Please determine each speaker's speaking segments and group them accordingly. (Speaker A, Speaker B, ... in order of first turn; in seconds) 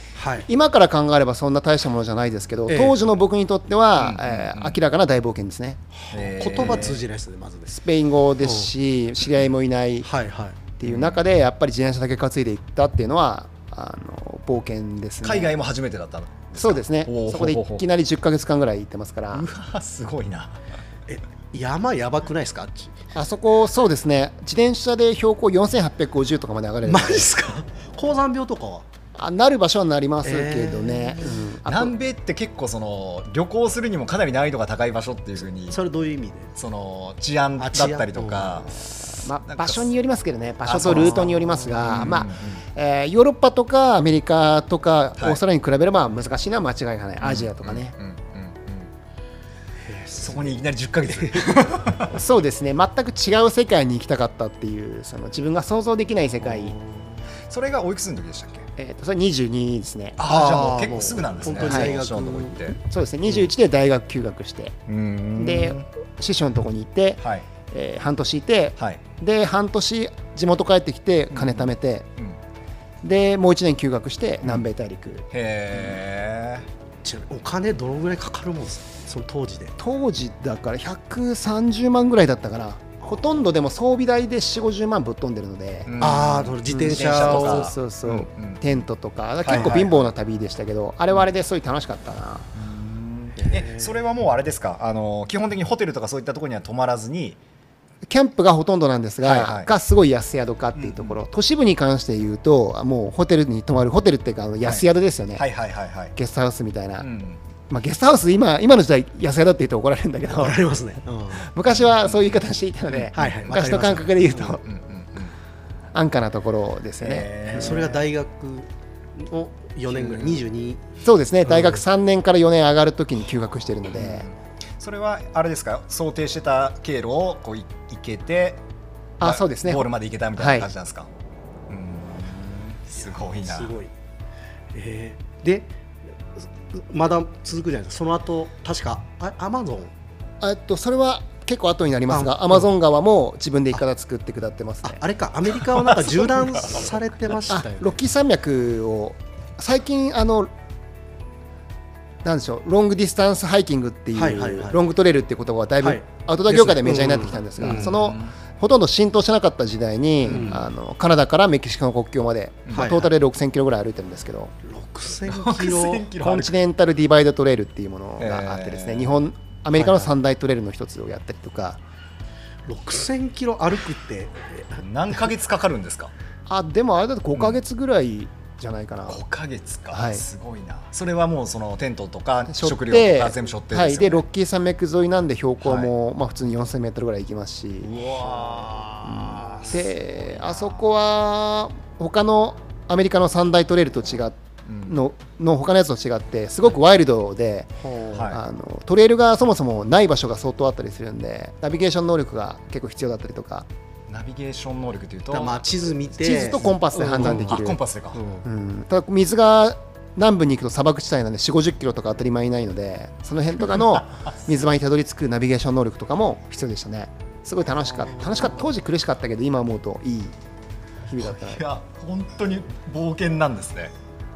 Speaker A: 0.2-0.5, 2.7-3.0, 6.0-7.8, 8.4-8.7, 10.1-10.6, 21.1-23.0, 26.9-28.9, 30.2-31.4, 35.7-36.5, 37.6-38.6, 40.7-41.7, 49.9-51.6, 56.7-57.1, 60.2-62.6, 77.0-79.8, 86.0-87.7, 93.4-94.0, 110.3-111.5, 113.1-114.6, 117.5-120.8, 121.5-121.8, 133.0-133.9, 134.7-135.7, 136.4-139.9, 142.1-142.7, 144.8-148.0, 154.2-154.8, 155.8-157.9, 160.3-160.6, 162.7-163.1, 164.7-166.1, 169.8-170.1, 172.7-174.8, 197.8-198.3, 205.3-207.6, 208.1-208.4, 218.2-218.6
Speaker B: 0.5-5.8, 7.7-10.1, 10.8-15.5, 16.6-19.5, 23.1-27.3, 29.1-31.9, 38.8-47.9, 52.1-56.8, 58.8-60.2, 61.6-62.0, 62.8-64.8, 65.4-72.1, 73.0-75.3, 79.8-85.9, 86.7-92.5, 98.1-105.5, 106.2-107.1, 107.7-110.6, 111.4-114.6, 115.9-117.8, 121.0-124.3, 129.2-130.7, 140.4-145.0, 147.5-150.5, 152.2-164.5, 166.2-171.8, 176.5-179.2, 179.9-180.2, 182.5-187.9, 189.1-197.7, 198.3-203.7, 206.2-207.8, 208.4-220.3, 221.1-221.6
Speaker C: 4.0-4.8, 6.1-7.0, 10.8-11.2, 15.2-17.9, 19.3-20.6, 31.7-35.8, 36.6-39.9, 40.7-42.6, 47.2-48.9, 50.2-52.2, 57.5-58.7, 60.2-62.8, 64.9-65.9, 71.3-72.4, 75.3-76.7, 85.9-88.7, 89.4-90.1, 92.5-97.4, 99.2-99.7, 100.8-101.2, 105.4-106.2, 107.0-107.4, 112.9-113.8, 114.6-115.3, 117.0-118.0, 119.9-120.4, 123.9-128.6, 129.2-131.1, 131.7-133.7, 145.7-146.9, 157.6-158.3, 160.2-160.6, 162.7-163.0, 165.3-166.5, 168.2-169.2, 174.8-176.1, 179.1-184.2, 185.6-185.9, 187.8-190.8, 194.7-195.0, 198.1-198.4, 204.1-208.2, 213.8-214.3, 221.2-223.9